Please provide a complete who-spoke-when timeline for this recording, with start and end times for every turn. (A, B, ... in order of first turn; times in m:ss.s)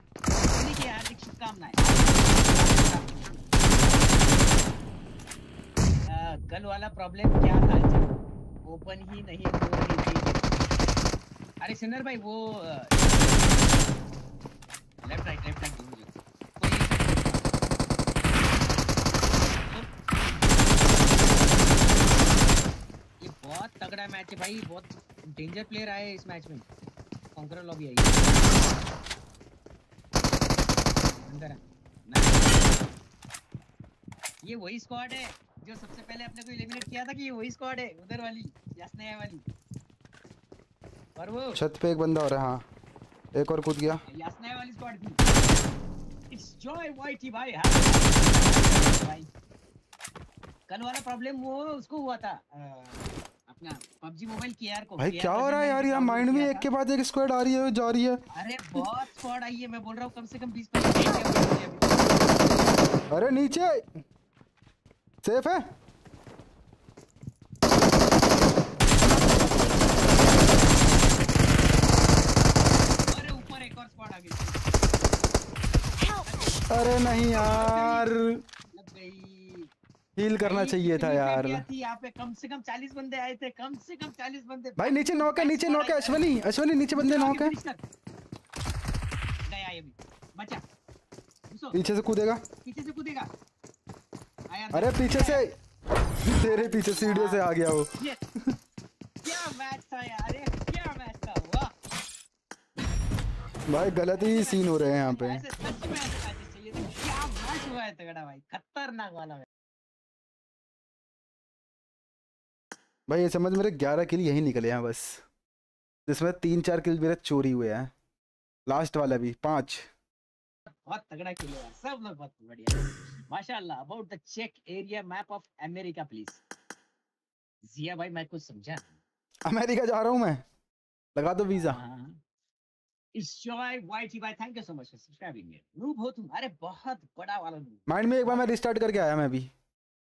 0:00.5-0:03.7 A
0:06.1-0:08.1 A
0:08.7-0:10.5 A
0:11.6-0:13.8 A
0:15.0-0:17.4 A
0:19.5-0:19.9 A
0:23.2-0:26.6 A
0:27.4-0:28.5 A
0:31.2-0:32.8 A
0:34.4-0:39.4 A
0:41.2-0:41.6 A
0:41.5-0:42.6 B
0:43.3-0:44.0 B
0:44.1-0:45.2 A
0:46.3-0:49.3 A
0:50.7-0:56.7 A
0:55.0-0:58.2 B
0:58.3-1:02.3 A
1:03.1-1:04.0 B
1:05.2-1:05.6 B
1:13.1-1:14.6 A
1:16.1-1:18.1 A
1:16.7-1:18.4 B
1:18.7-1:19.7 A
1:20.2-1:21.6 B
1:20.4-1:26.3 A
1:24.8-1:27.5 B
1:26.9-1:27.8 A
1:29.4-1:30.6 A
1:31.5-1:31.8 A
1:31.7-1:32.4 B
1:32.6-1:33.3 A
1:34.5-1:35.5 A
1:34.7-1:35.6 B
1:36.2-1:37.9 B
1:36.3-1:37.5 A
1:39.2-1:41.7 A
1:43.7-1:45.4 B
1:44.1-1:49.5 A
1:53.1-1:55.2 B
1:56.1-1:57.9 B
1:58.7-1:59.8 B
2:00.7-2:06.4 A
2:07.6-2:09.0 A
2:09.4-2:10.4 B
2:11.2-2:11.8 B
2:11.5-2:12.2 A
2:13.1-2:18.5 A
2:17.9-2:19.5 B